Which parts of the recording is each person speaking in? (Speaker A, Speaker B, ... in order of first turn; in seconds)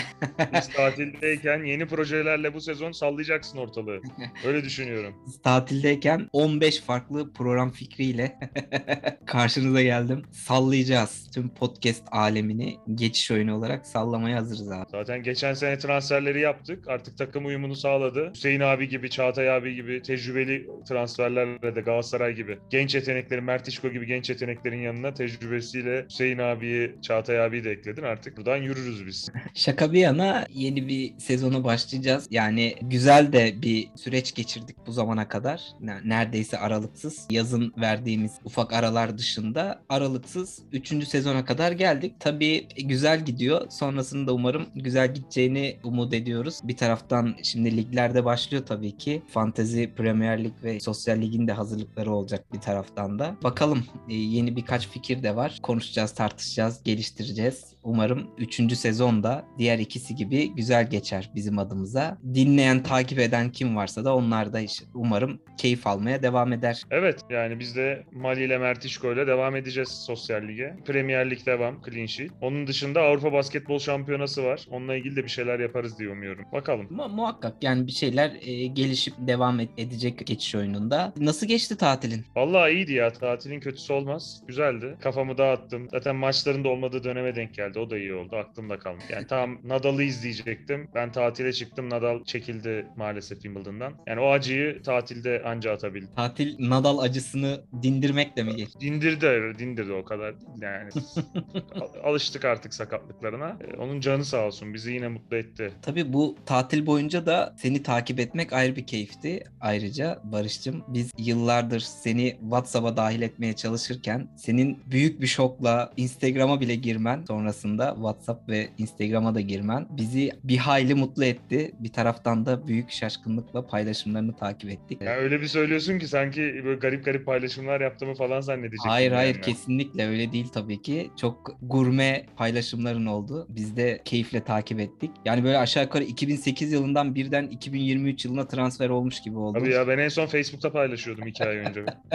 Speaker A: 0.2-1.4, 5.3-14.9, 29.5-66.8, 76.9-82.3, 96.2-98.7, 101.1-101.8, 105.8-125.1, 128.8-139.8
Speaker B: 0.5-5.2, 14.9-29.3, 66.9-76.9, 82.3-96.1, 98.8-105.8, 125.0-129.6, 139.5-141.9